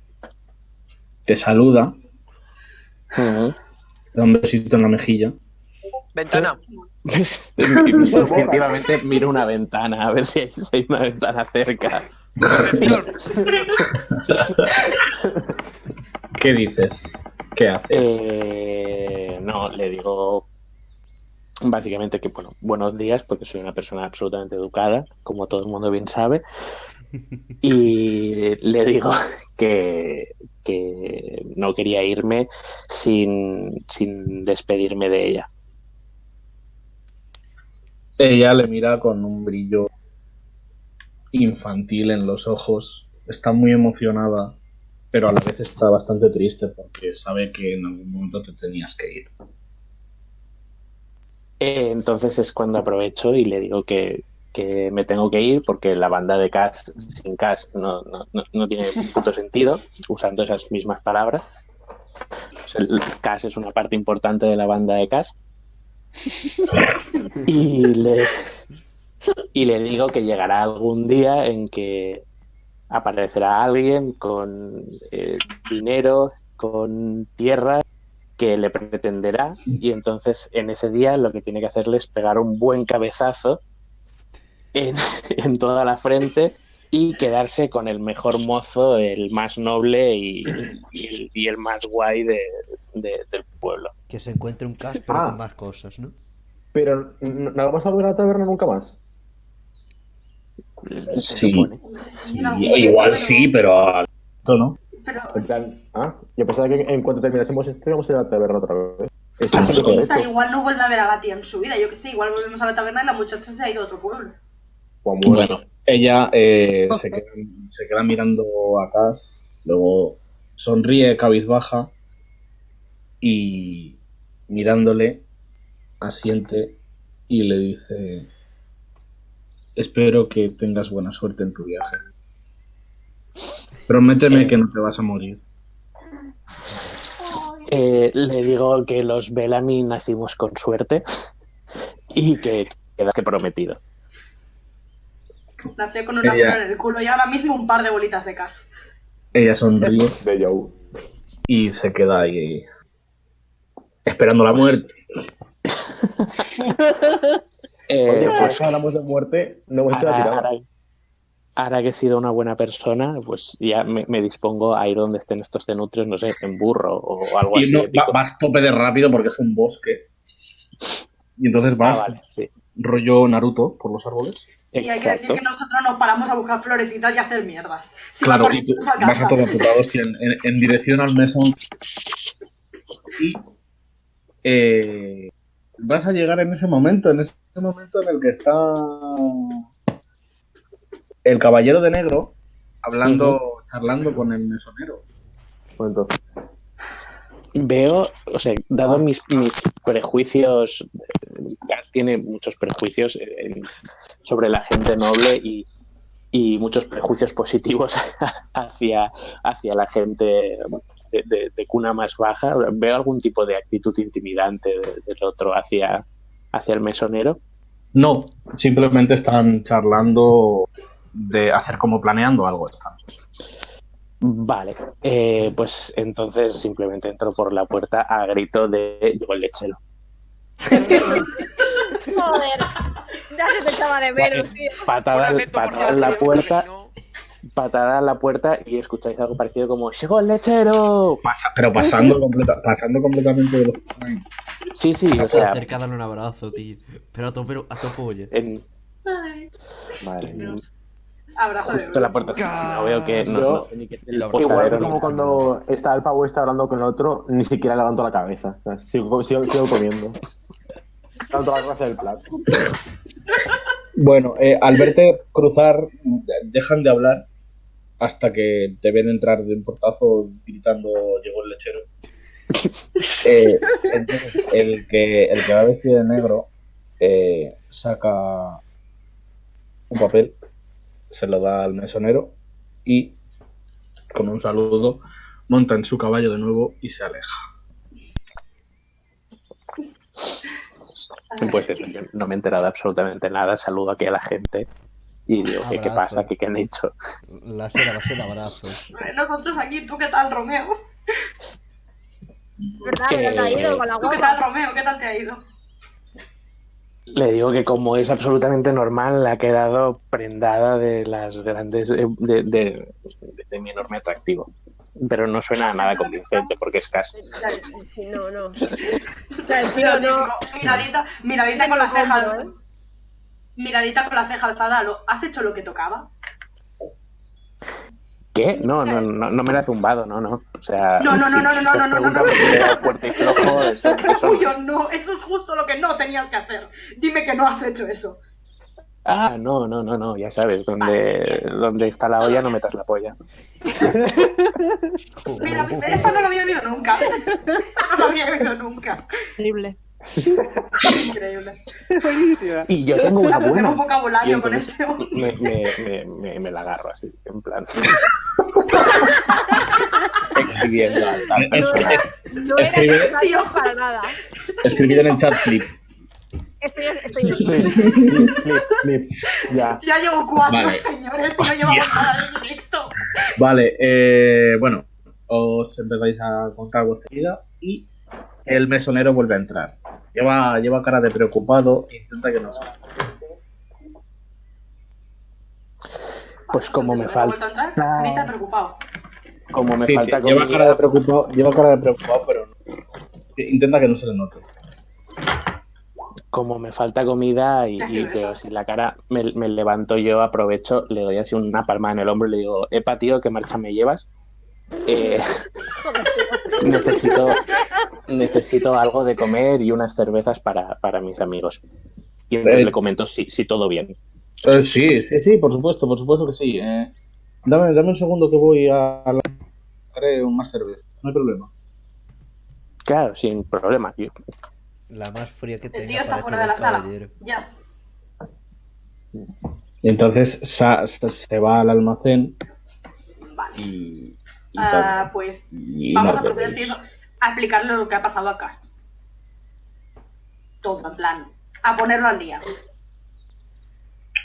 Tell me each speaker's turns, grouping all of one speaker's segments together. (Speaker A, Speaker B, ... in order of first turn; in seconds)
Speaker A: 1.3-1.9, 4.2-5.3, 12.4-13.0, 13.9-15.1, 16.4-18.2, 38.2-39.9, 41.3-44.6, 45.1-49.3, 101.1-101.7, 102.2-104.8, 109.5-110.0, 115.2-121.9, 123.2-124.0, 124.5-125.2, 126.0-128.3, 129.8-132.0, 133.9-135.4, 146.2-146.6, 149.3-150.2, 151.5-152.7, 154.1-154.9, 167.5-170.6, 171.4-172.2, 172.8-174.5, 178.2-181.6, 184.4-189.6, 191.2-195.0, 217.9-223.0, 241.2-244.2, 264.0-267.3, 268.0-271.9, 273.2-278.6, 279.9-280.4, 281.1-283.2, 284.1-287.4, 360.4-360.7, 361.3-362.0, 362.6-363.1, 364.6-365.7, 367.2-368.3, 370.5-370.9, 371.4-372.1, 373.4-377.9, 378.5-382.8, 389.9-392.5, 393.4-394.4, 412.4-412.7, 414.4-416.9, 417.4-419.3, 419.9-421.5, 429.8-432.4, 433.6-436.8
Speaker B: 3.1-3.6, 7.1-12.1, 17.9-20.5, 21.6-26.4, 27.6-35.5, 51.6-61.4, 62.6-65.3, 67.4-68.4, 69.5-72.2, 72.9-77.8, 78.4-83.6, 84.8-93.9, 100.8-101.8, 134.3-134.6, 137.7-141.0, 142.1-143.8, 155.7-156.5, 157.9-158.7, 159.9-160.7, 161.6-168.2, 171.8-172.5, 174.7-175.4, 193.0-193.4, 197.6-203.7, 204.2-205.7, 206.3-217.4, 224.2-229.8, 234.9-236.7, 237.6-241.3, 244.8-245.7, 248.3-248.6, 250.2-250.6, 251.7-255.1, 291.4-294.7, 295.3-296.9, 303.1-303.9, 307.1-314.5, 315.0-317.3, 328.4-334.6, 339.1-343.1, 352.7-358.0, 360.3-362.0, 386.5-388.3, 389.5-390.8, 396.3-404.1, 404.9-405.4, 406.6-407.4, 408.1-411.6, 412.3-413.9, 422.9-424.1
Speaker C: 6.2-6.6, 12.4-13.9, 235.1-236.9
Speaker D: 8.0-8.8, 95.1-95.4, 96.7-99.0, 105.3-110.3, 115.0-115.6, 149.8-150.8, 158.1-160.5, 195.8-196.2, 250.0-250.5, 253.2-253.7, 254.3-260.2, 261.3-262.2, 350.2-350.6, 367.5-369.8
Speaker E: 94.1-96.1, 245.1-248.3, 252.4-253.5, 254.1-255.5, 295.6-296.3, 297.3-298.9, 345.2-346.2, 424.9-427.1
Speaker F: 101.8-103.5, 105.0-105.5, 109.6-114.4, 145.8-148.7, 174.8-179.6, 249.1-249.5, 251.4-252.4, 291.3-291.9, 298.9-300.8, 304.0-305.4, 315.7-316.5, 319.5-322.5, 323.6-326.1, 331.0-338.2, 340.8-341.4, 345.4-349.0, 350.8-351.6, 353.2-355.2, 362.9-363.7, 364.7-365.4, 369.8-373.0, 386.5-388.8, 397.8-398.4, 425.7-427.5, 433.3-433.7, 434.6-438.7, 440.6-442.4
Speaker G: 156.8-157.2, 344.2-344.8, 351.9-353.3
Speaker H: 230.7-232.8, 233.3-234.8, 302.8-304.4, 317.2-318.6, 319.5-320.3, 321.6-322.5, 349.4-349.8, 361.5-364.1, 366.6-367.8, 405.8-407.4